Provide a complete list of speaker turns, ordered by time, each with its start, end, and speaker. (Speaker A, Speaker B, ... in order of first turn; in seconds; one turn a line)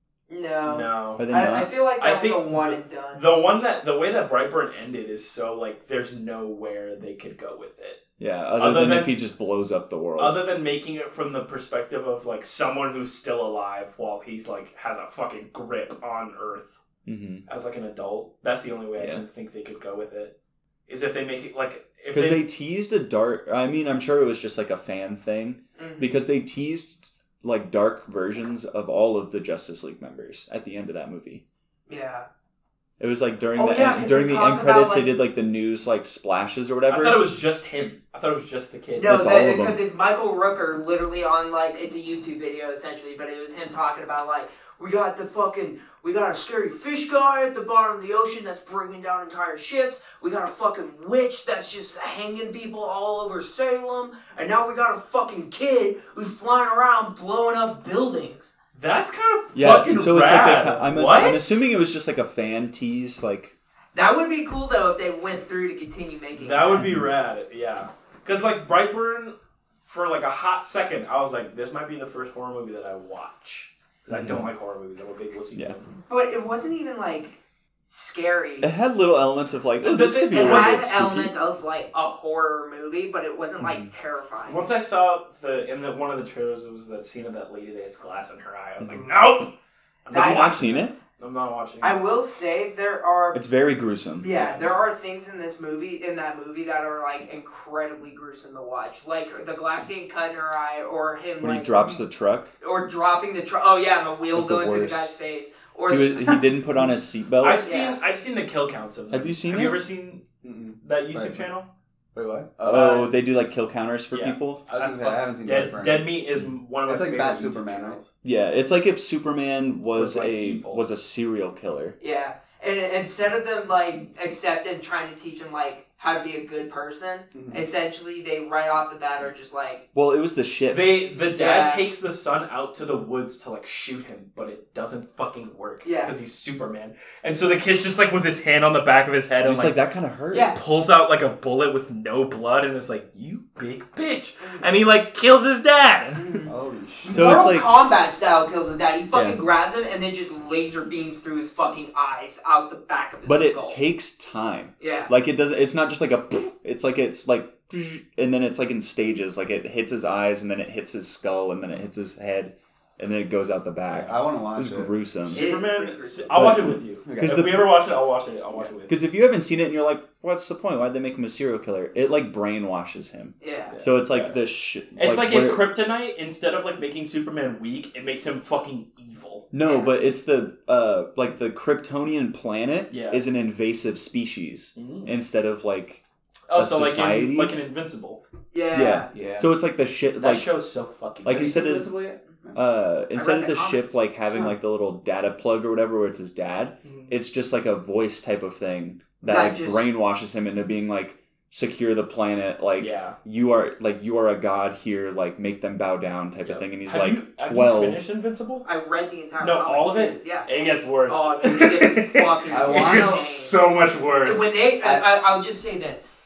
Speaker A: 0.3-3.2
Speaker B: 0.6-1.2
Speaker C: 1.1-1.7
Speaker B: 2.0-8.0
Speaker C: 8.2-10.4
Speaker B: 8.6-9.1
Speaker B: 10.2-16.8
Speaker C: 17.1-17.4
Speaker B: 17.5-20.3
Speaker C: 19.0-19.2
Speaker B: 20.9-22.4
Speaker C: 22.1-31.4
Speaker A: 25.8-26.1
Speaker A: 31.9-32.3
Speaker C: 33.0-37.2
Speaker A: 33.5-35.1
Speaker B: 36.9-39.1
Speaker A: 38.9-58.5
Speaker C: 39.0-39.8
Speaker B: 58.7-61.5
Speaker C: 59.5-63.5
Speaker A: 61.1-61.4
Speaker A: 63.9-66.9
Speaker B: 66.4-75.9
Speaker C: 74.1-74.5
Speaker A: 76.1-78.7
Speaker C: 78.6-81.3
Speaker B: 79.8-80.9
Speaker A: 80.3-84.6
Speaker C: 83.6-83.9
Speaker B: 84.5-89.5
Speaker B: 90.0-92.0
Speaker C: 90.1-90.9
Speaker A: 90.1-90.5
Speaker A: 91.8-93.4
Speaker C: 93.3-94.3
Speaker A: 94.2-102.0
Speaker B: 94.3-94.7
Speaker C: 101.4-102.5
Speaker A: 102.6-106.4
Speaker C: 104.3-105.1
Speaker C: 105.9-107.7
Speaker B: 107.4-110.2
Speaker A: 107.6-108.0
Speaker C: 109.1-109.8
Speaker D: 110.4-111.5
Speaker B: 110.8-111.7
Speaker D: 112.1-113.0
Speaker B: 112.6-113.1
Speaker C: 112.6-114.6
Speaker B: 114.1-118.1
Speaker D: 114.7-116.2
Speaker D: 116.8-118.0
Speaker C: 118.2-122.0
Speaker B: 119.9-120.8
Speaker A: 122.0-129.8
Speaker D: 127.3-127.6
Speaker C: 129.9-130.9
Speaker B: 130.7-139.8
Speaker A: 131.3-131.8
Speaker A: 135.8-136.1
Speaker C: 139.4-140.5
Speaker A: 140.3-140.6
Speaker B: 140.5-146.4
Speaker A: 144.4-144.7
Speaker A: 146.2-146.5
Speaker D: 146.4-147.5
Speaker A: 147.0-153.8
Speaker C: 147.1-147.7
Speaker C: 153.2-165.4
Speaker A: 154.8-155.1
Speaker D: 164.0-164.9
Speaker A: 165.3-166.5
Speaker B: 165.3-168.9
Speaker C: 166.3-167.7
Speaker D: 167.0-167.6
Speaker C: 168.9-175.6
Speaker A: 173.4-173.7
Speaker B: 173.7-174.3
Speaker B: 174.9-179.5
Speaker C: 179.5-186.0
Speaker B: 182.9-183.2
Speaker B: 184.7-185.1
Speaker B: 186.5-188.2
Speaker C: 186.5-187.6
Speaker A: 188.5-189.1
Speaker C: 188.7-190.5
Speaker D: 189.1-189.5
Speaker B: 190.2-191.6
Speaker C: 191.2-192.0
Speaker D: 191.3-192.6
Speaker C: 192.5-208.0
Speaker A: 193.1-194.0
Speaker B: 196.8-197.1
Speaker A: 199.2-199.9
Speaker B: 202.8-203.2
Speaker B: 206.4-208.7
Speaker A: 208.6-213.5
Speaker B: 209.4-214.5
Speaker D: 212.5-213.2
Speaker A: 214.2-216.0
Speaker D: 214.8-215.1